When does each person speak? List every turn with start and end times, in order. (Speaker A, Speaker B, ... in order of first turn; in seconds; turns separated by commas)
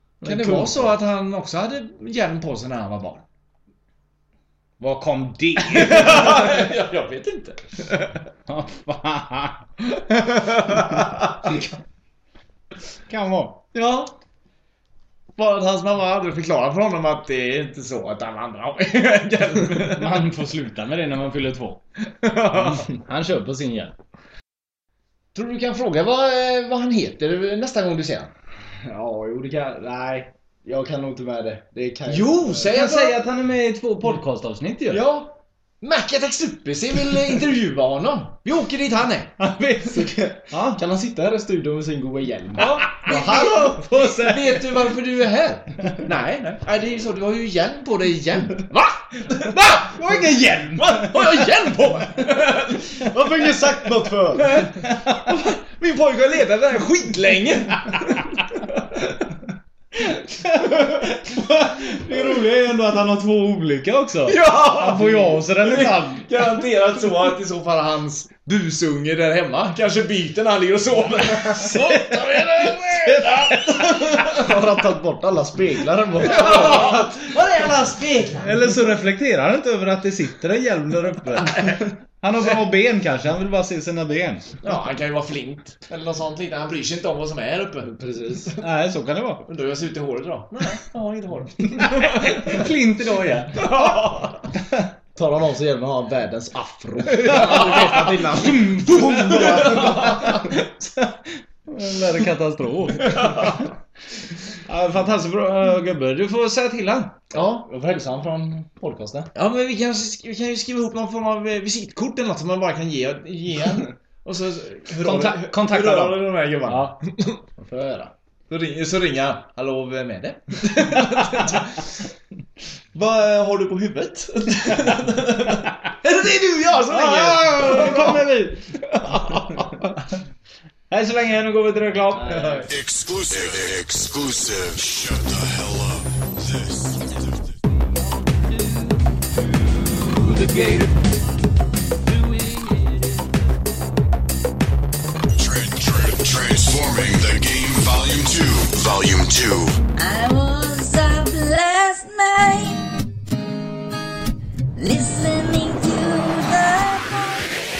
Speaker A: 0.2-1.0, Speaker B: 0.2-3.2, Speaker C: 4.8-6.6, Speaker B: 5.6-8.2, Speaker C: 8.5-9.6, Speaker B: 9.9-11.5, Speaker C: 11.4-11.7, Speaker C: 13.1-13.6, Speaker B: 13.7-14.1, Speaker B: 15.3-20.2, Speaker C: 19.9-21.8, Speaker B: 22.2-22.9, Speaker C: 22.6-23.9, Speaker B: 25.3-28.3, Speaker A: 28.8-32.7, Speaker B: 32.1-33.2, Speaker C: 32.7-35.0, Speaker B: 34.9-39.3, Speaker C: 39.4-40.8, Speaker A: 39.9-42.9, Speaker B: 42.6-50.2, Speaker C: 42.9-44.6, Speaker C: 49.5-51.5, Speaker B: 50.8-59.2, Speaker A: 53.0-54.6, Speaker C: 54.8-55.2, Speaker C: 60.1-66.6, Speaker B: 60.5-62.4, Speaker B: 64.3-74.6, Speaker C: 71.5-73.9, Speaker A: 74.2-76.9, Speaker B: 76.2-78.9, Speaker C: 76.4-77.0, Speaker C: 78.4-84.5, Speaker B: 81.4-81.8, Speaker B: 84.6-87.9, Speaker A: 87.8-88.5, Speaker C: 88.6-89.5, Speaker B: 89.5-92.6, Speaker C: 91.8-93.8, Speaker B: 93.6-94.4, Speaker A: 95.1-100.4, Speaker B: 97.2-98.1, Speaker C: 97.2-101.2, Speaker B: 99.3-100.4, Speaker C: 101.7-103.6, Speaker B: 103.0-103.6, Speaker C: 104.6-107.2, Speaker A: 107.3-109.3, Speaker B: 107.3-107.7, Speaker B: 109.3-117.4, Speaker C: 115.0-117.0, Speaker C: 117.6-118.1, Speaker B: 118.5-122.0, Speaker B: 122.9-128.3, Speaker C: 126.9-129.7, Speaker B: 129.1-129.7, Speaker C: 130.9-132.7, Speaker B: 132.2-132.7, Speaker A: 132.4-132.6, Speaker D: 132.7-137.0, Speaker D: 145.3-149.8, Speaker E: 149.9-152.9, Speaker E: 154.8-157.5